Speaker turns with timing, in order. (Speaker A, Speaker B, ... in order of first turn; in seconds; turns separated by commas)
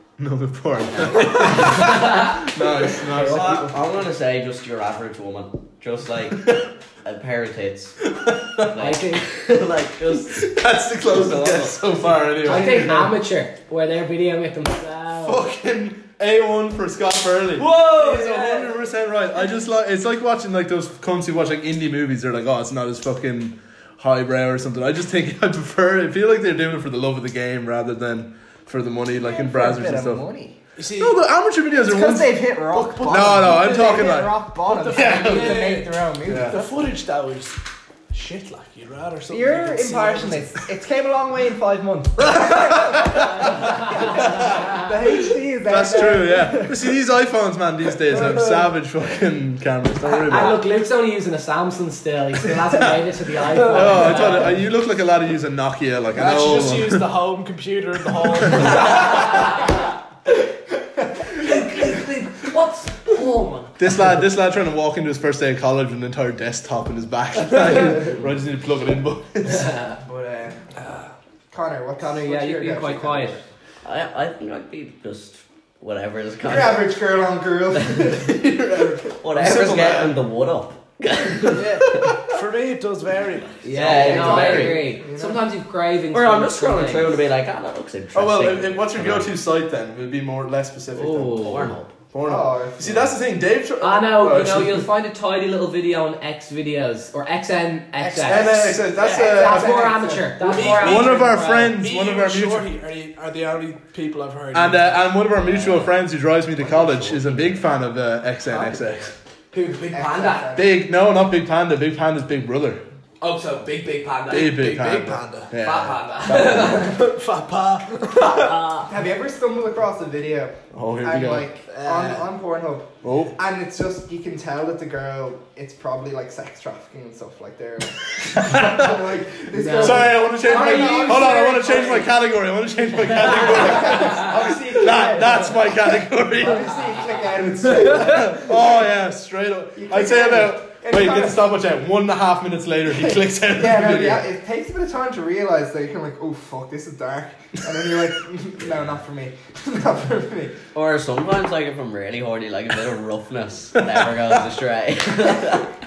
Speaker A: 0.2-3.7, Speaker B: 1.0-2.4, Speaker C: 1.4-1.7, Speaker B: 3.1-3.7, Speaker D: 3.2-8.0, Speaker A: 8.1-8.8, Speaker D: 8.6-10.5, Speaker B: 8.8-9.3, Speaker A: 10.2-13.1, Speaker D: 11.1-11.8, Speaker B: 12.4-15.4, Speaker A: 15.2-30.2, Speaker B: 17.6-18.8, Speaker E: 29.2-30.6, Speaker C: 30.8-31.2, Speaker A: 31.0-32.5, Speaker E: 31.8-36.7, Speaker C: 32.7-37.6, Speaker A: 33.0-35.7, Speaker A: 36.3-36.6, Speaker C: 38.1-40.6, Speaker E: 39.3-46.9, Speaker A: 42.4-43.5, Speaker A: 44.2-44.9, Speaker A: 45.7-50.6, Speaker B: 50.2-54.6, Speaker A: 53.6-57.1, Speaker C: 53.8-54.1, Speaker C: 56.1-59.4, Speaker A: 58.4-58.9, Speaker B: 59.0-59.3, Speaker B: 61.4-63.8, Speaker A: 63.8-69.9, Speaker E: 70.0-70.7, Speaker E: 71.5-73.5, Speaker B: 72.0-73.4, Speaker D: 73.8-76.9, Speaker E: 76.4-78.4, Speaker D: 77.8-78.1, Speaker A: 78.1-80.2, Speaker D: 79.1-82.2, Speaker C: 81.5-83.6, Speaker B: 83.6-87.2, Speaker D: 83.7-84.9, Speaker E: 83.8-85.4, Speaker D: 86.1-89.4, Speaker A: 88.1-91.6, Speaker B: 90.9-91.7, Speaker D: 91.3-92.0, Speaker A: 92.1-94.9, Speaker E: 92.2-93.1, Speaker B: 93.8-101.7, Speaker A: 98.2-100.0, Speaker C: 98.4-98.7, Speaker E: 98.5-100.3, Speaker C: 100.4-105.0, Speaker A: 100.5-102.7, Speaker A: 104.5-109.1, Speaker B: 109.5-110.6, Speaker E: 109.9-110.7, Speaker A: 110.5-112.8, Speaker B: 113.2-114.7, Speaker A: 114.3-116.9, Speaker C: 114.3-115.5, Speaker B: 115.6-117.0, Speaker C: 116.3-118.8, Speaker B: 118.4-118.8, Speaker E: 118.8-132.0, Speaker A: 120.7-121.5, Speaker C: 121.7-122.3, Speaker A: 123.0-123.3, Speaker A: 128.3-128.9, Speaker B: 129.5-132.1, Speaker A: 129.8-136.8, Speaker E: 133.2-135.7, Speaker E: 136.4-138.8, Speaker A: 137.7-144.2, Speaker E: 139.8-141.4, Speaker E: 143.0-150.6, Speaker D: 150.7-155.7